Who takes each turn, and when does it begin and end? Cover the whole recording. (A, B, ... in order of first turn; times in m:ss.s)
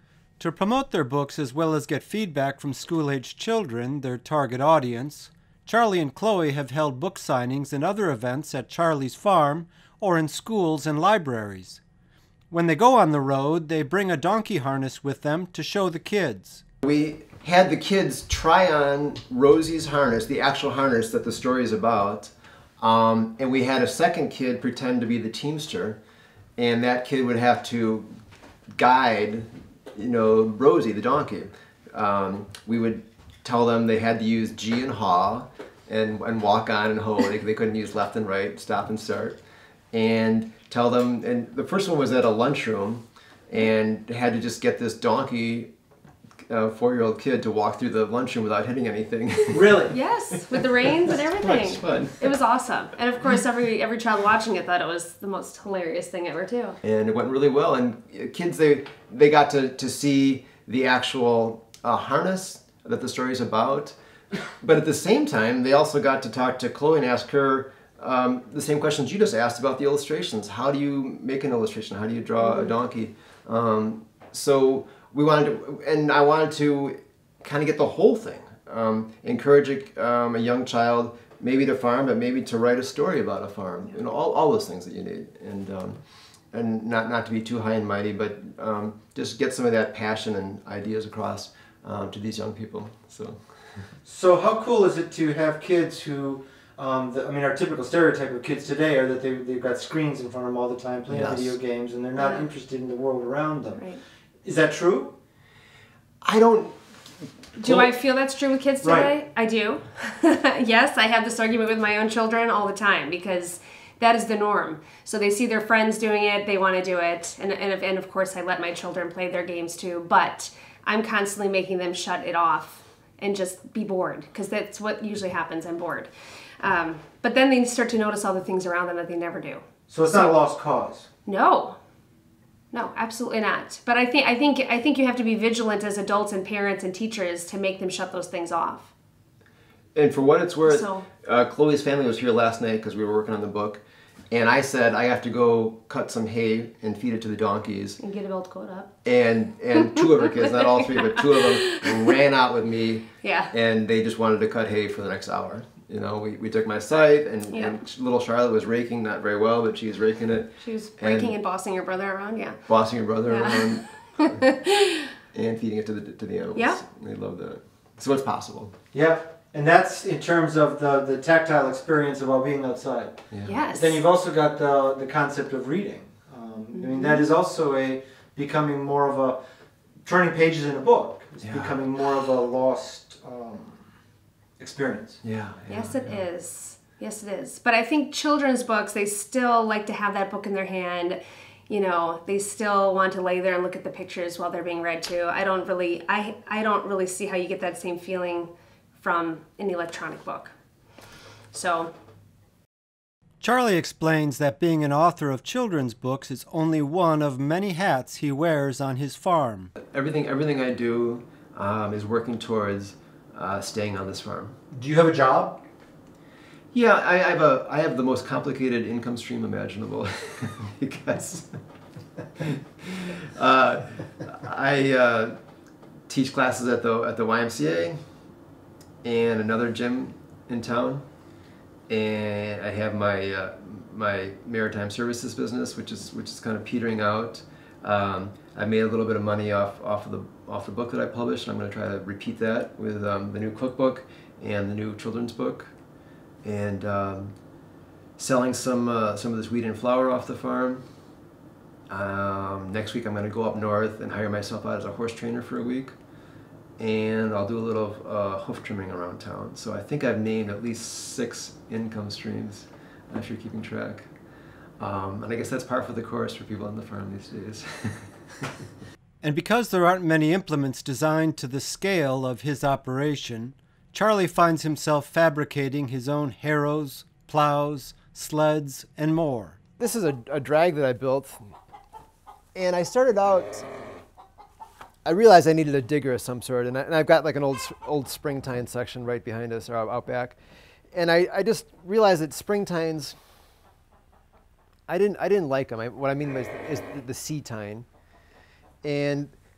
0:00.4-0:11.8 A
0:12.5-0:16.6 A
0:16.8-0:26.0 B
0:26.6-0:28.1 B
0:28.7-0:39.4 B
0:39.9-0:45.7 B
0:46.5-0:52.3 B
0:49.5-0:49.9 A
0:49.9-0:56.8 C
0:56.8-1:03.9 B
1:04.6-1:26.0 B
1:12.4-1:12.7 C
1:26.5-1:33.4 B
1:34.0-1:43.8 A
1:41.1-1:41.6 B
1:42.2-1:42.5 C
1:43.7-1:44.0 C
1:44.4-1:45.1 A
1:46.2-1:46.8 B
1:47.6-2:10.3 C
1:47.6-1:47.9 B
1:48.8-1:49.1 A
2:09.9-2:11.1 A
2:11.2-2:11.8 C
2:12.7-2:18.9 C
2:19.9-2:28.0 B
2:20.6-2:21.0 C
2:28.0-2:28.9 C
2:29.0-2:41.3 B
2:30.0-2:30.5 C
2:31.3-2:32.1 C
2:33.2-2:33.5 C
2:40.6-2:42.6 C
2:42.7-2:44.4 B
2:43.2-2:45.1 C
2:45.3-2:48.7 B
2:48.9-2:59.4 A
2:53.3-2:53.6 B
2:53.4-2:54.0 C
2:56.8-2:57.3 C
3:00.0-3:03.8 A
3:01.4-3:01.8 B
3:04.6-3:05.2 A
3:05.2-3:06.2 B
3:05.7-3:20.5 C
3:21.5-3:21.9 C
3:23.4-3:29.7 A
3:29.8-3:34.6 B
3:34.7-3:35.6 A
3:36.7-3:41.6 B
3:42.4-3:45.4 B
3:46.1-3:48.0 B
3:49.0-3:51.0 B
3:51.9-4:05.7 B
4:06.4-4:07.3 B
4:08.2-4:10.8 B
4:11.9-4:16.0 B
4:16.8-4:24.1 B
4:24.8-4:28.6 B
4:29.2-4:39.6 A
4:39.8-4:41.4 B
4:42.5-4:43.7 B
4:45.0-4:50.4 B
4:50.9-4:53.2 B
4:54.9-4:57.9 B
4:58.8-4:59.3 B